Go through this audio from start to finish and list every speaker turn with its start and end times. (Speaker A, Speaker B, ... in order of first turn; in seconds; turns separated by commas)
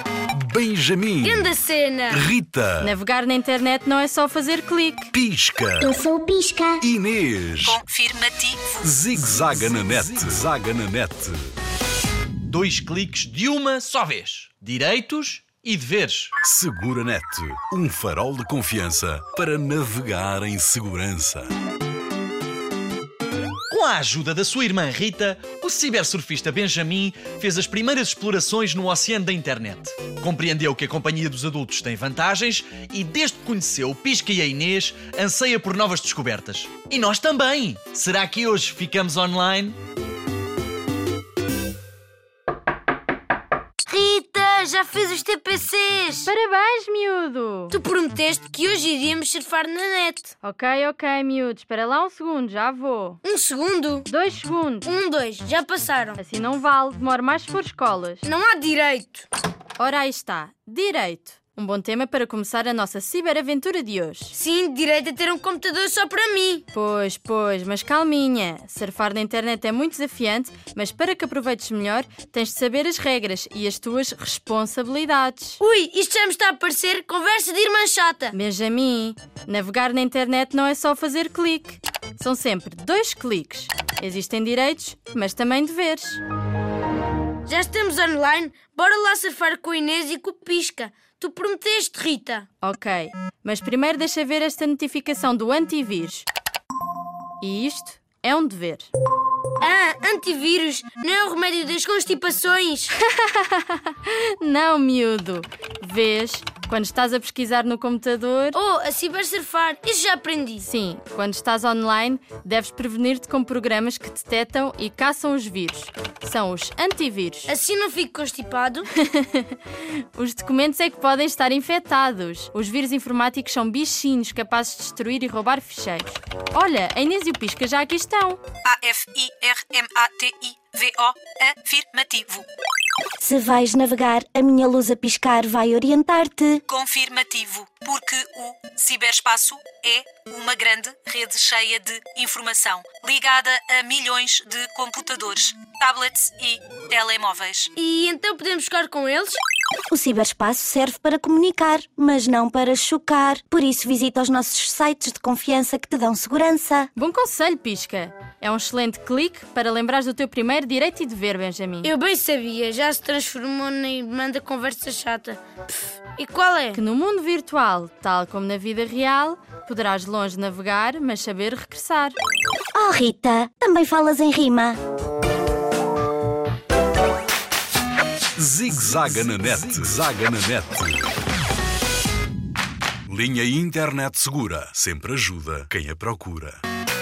Speaker A: 0.3-1.5, Speaker B: 1.2-2.2, Speaker A: 2.1-2.9, Speaker C: 2.8-5.1, Speaker A: 5.1-6.0, Speaker D: 5.8-6.7, Speaker A: 6.8-7.8, Speaker E: 7.6-8.8, Speaker A: 8.8-11.4, Speaker F: 12.5-16.3, Speaker A: 16.4-21.5, Speaker F: 23.7-39.8, Speaker B: 43.9-46.3, Speaker C: 46.2-47.8, Speaker B: 47.7-50.3, Speaker C: 50.4-53.2, Speaker B: 53.2-54.1, Speaker C: 54.1-54.9, Speaker B: 54.8-56.2, Speaker C: 56.2-58.2, Speaker B: 58.2-59.3, Speaker C: 59.8-64.3, Speaker B: 64.3-66.6, Speaker C: 66.7-75.6, Speaker B: 75.6-78.4, Speaker C: 78.3-86.2, Speaker B: 87.5-92.5, Speaker C: 92.6-96.3, Speaker C: 97.4-98.9, Speaker B: 99.6-102.9, Speaker C: 103.0-108.6, Speaker B: 108.5-110.7, Speaker C: 110.6-117.5, Speaker B: 117.5-118.9, Speaker C: 119.0-128.4, Speaker E: 128.6-132.5, Speaker D: 133.2-136.6, Speaker E: 136.7-147.7, Speaker B: 147.8-149.4, Speaker D: 149.9-156.9, Speaker C: 156.9-161.9, Speaker B: 161.8-166.8, Speaker C: 166.7-172.2, Speaker D: 172.8-174.8, Speaker A: 178.4-181.1, Speaker A: 183.1-186.6